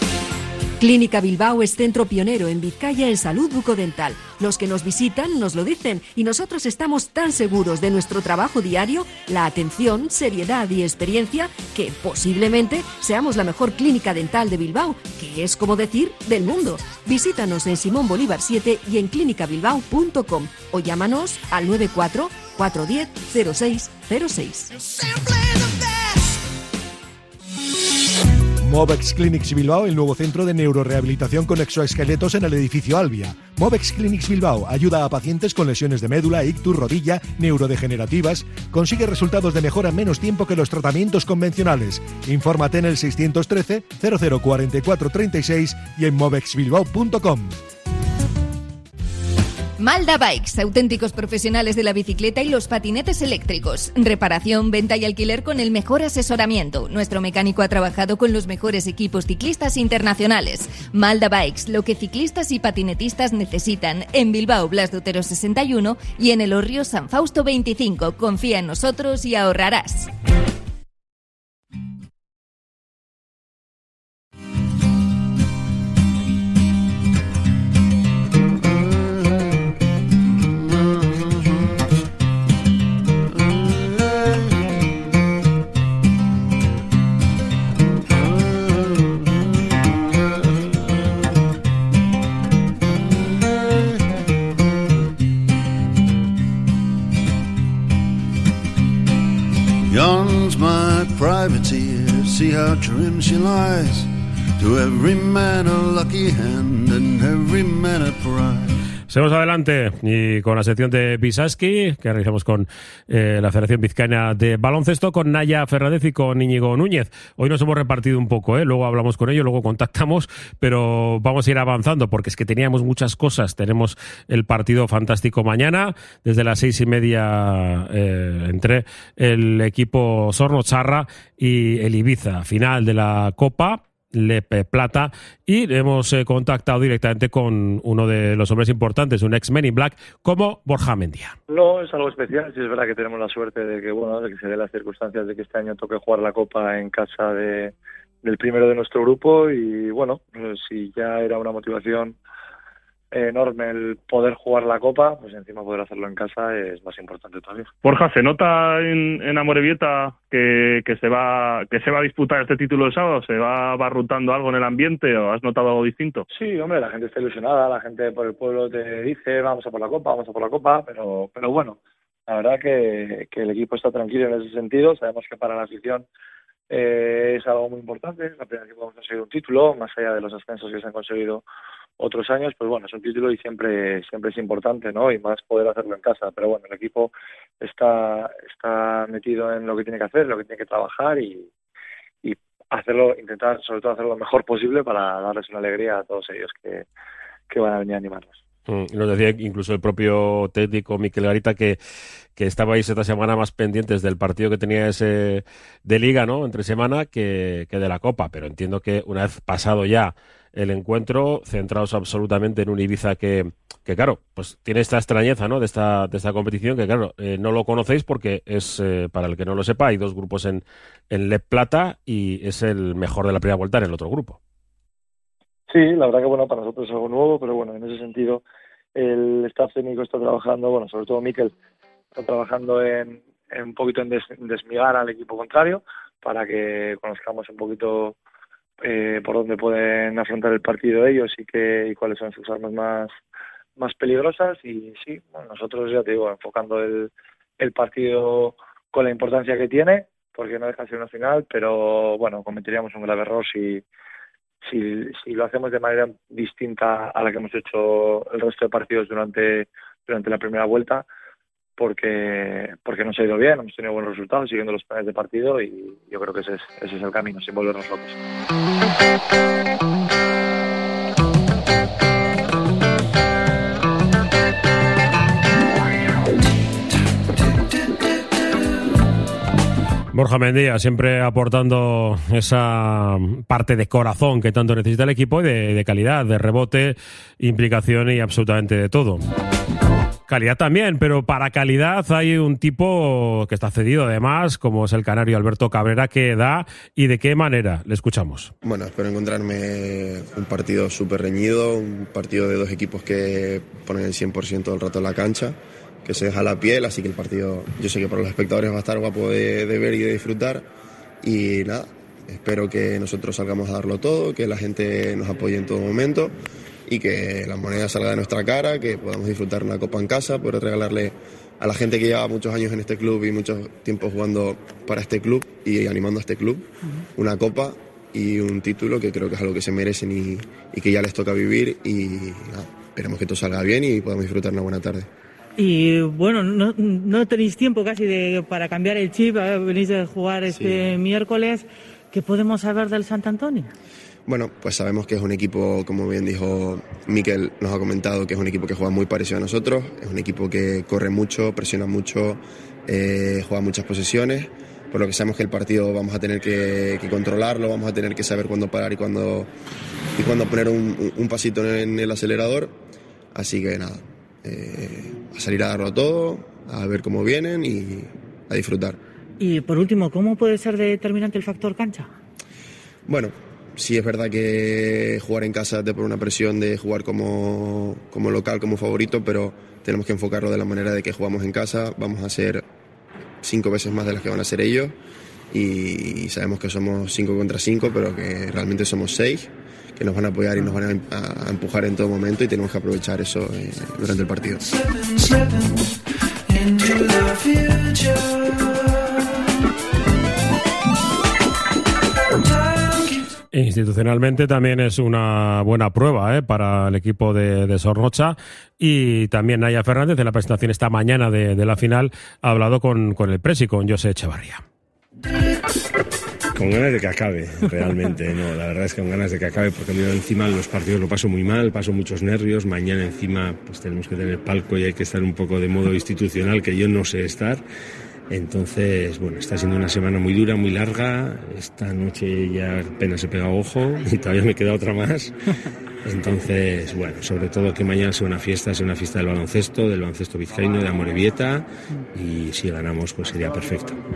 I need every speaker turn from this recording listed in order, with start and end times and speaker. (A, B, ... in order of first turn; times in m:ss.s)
0:00.8-0:24.7 A
0:28.6-0:47.6 B
0:49.8-1:10.1 C
1:39.9-1:48.8 D
1:49.1-2:21.4 E
2:21.5-2:32.2 F
2:33.1-2:37.7 F
2:37.8-2:46.2 G
2:46.3-2:56.1 F
2:56.7-3:01.4 F
3:02.0-3:11.5 F
3:12.2-3:16.9 F
3:17.5-3:18.4 F
3:18.7-3:21.8 E
3:22.4-3:44.4 E
3:45.7-3:48.4 F
3:49.0-3:51.5 F
3:52.1-3:58.2 F
3:58.8-4:03.2 F
4:03.8-4:13.8 F
4:14.6-4:21.1 F
4:21.8-4:28.2 F
4:40.1-4:49.2 E
4:50.3-4:58.5 E
4:58.6-5:10.7 H
5:11.2-5:16.4 H
5:16.9-5:35.1 H
5:35.6-5:43.7 I
5:40.5-5:41.0 H
5:44.3-5:59.5 H
6:00.2-6:02.8 H
6:03.3-6:09.0 H
6:09.4-6:12.1 I
6:13.1-6:22.6 H
6:23.4-6:25.0 H
6:25.5-6:34.7 H
6:43.5-6:54.6 E
6:56.5-7:07.6 J
7:08.3-7:15.4 J
7:16.0-7:24.0 J